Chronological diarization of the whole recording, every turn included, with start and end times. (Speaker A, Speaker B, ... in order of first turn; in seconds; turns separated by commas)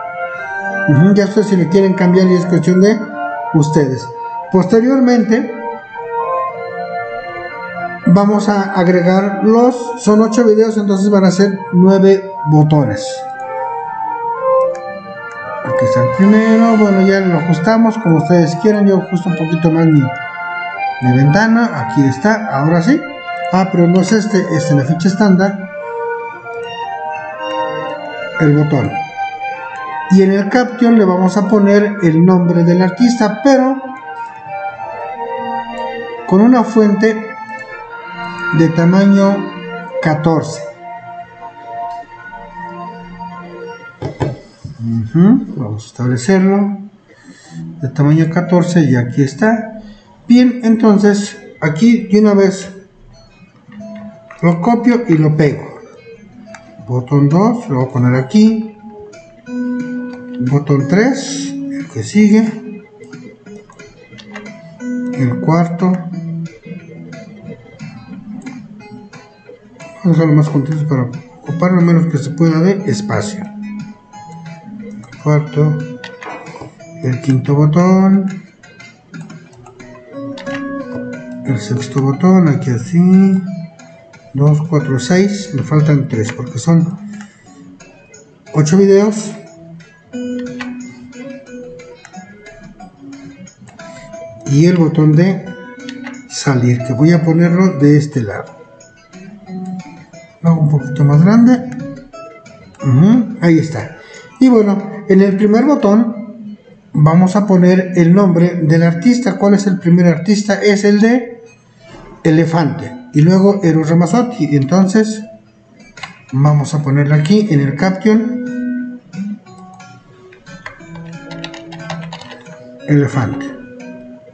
Speaker A: 0.9-5.7, Speaker A: 8.1-13.3, Speaker A: 15.6-20.1, Speaker A: 21.0-25.7, Speaker A: 28.4-29.0, Speaker A: 30.1-34.0, Speaker A: 36.3-37.4, Speaker A: 38.5-40.7, Speaker A: 44.8-46.9, Speaker A: 47.8-52.8, Speaker A: 54.4-55.8, Speaker A: 56.8-58.8, Speaker A: 60.4-62.7, Speaker A: 65.2-66.1, Speaker A: 70.0-73.5, Speaker A: 75.2-76.0, Speaker A: 77.0-78.4, Speaker A: 81.4-83.5, Speaker A: 84.3-87.0, Speaker A: 88.5-89.4, Speaker A: 94.5-95.6, Speaker A: 96.3-98.5, Speaker A: 100.4-101.8, Speaker A: 102.8-111.4, Speaker A: 112.2-115.3, Speaker A: 116.3-118.5, Speaker A: 122.9-123.5